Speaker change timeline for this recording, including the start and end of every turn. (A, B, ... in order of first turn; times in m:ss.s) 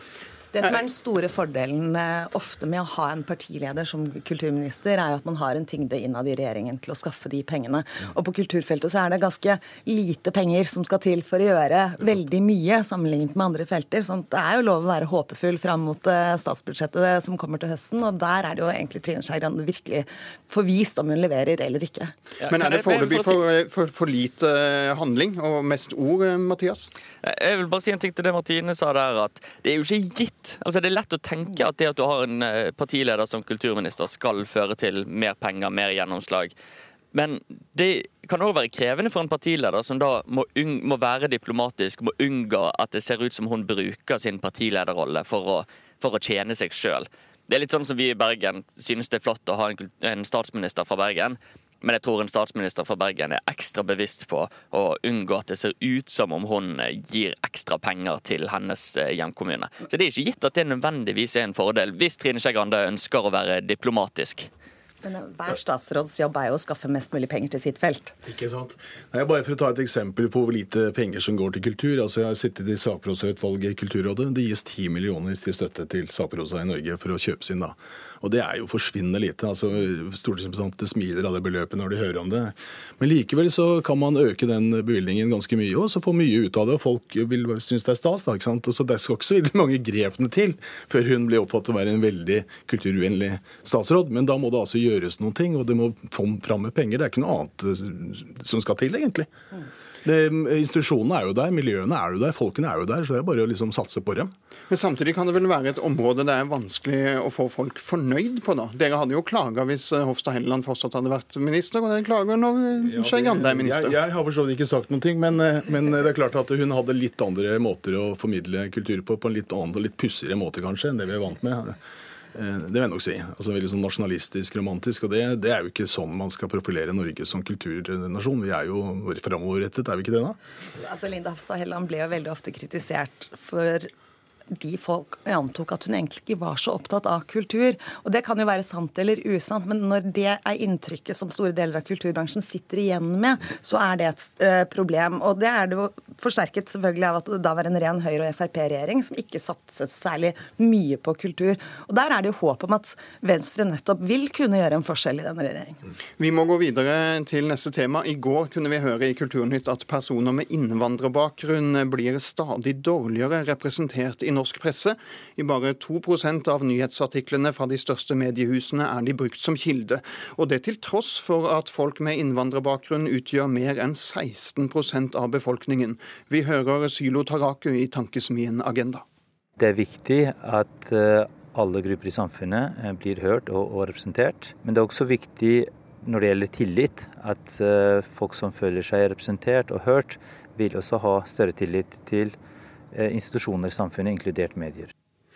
0:00.5-0:22.1 A
0:22.4-0:23.4 B
0:22.5-0:26.9 C
0:27.2-0:36.5 B
0:37.1-1:04.5 B
1:05.0-1:08.1 A
1:08.3-1:39.3 D
1:40.0-1:44.3 D
1:44.7-1:54.0 C
1:52.9-2:01.8 D
2:02.4-2:10.4 D
2:10.8-2:13.9 A
2:14.5-2:35.8 A
2:36.2-2:59.0 C
2:59.6-3:12.4 E
3:12.9-3:14.9 E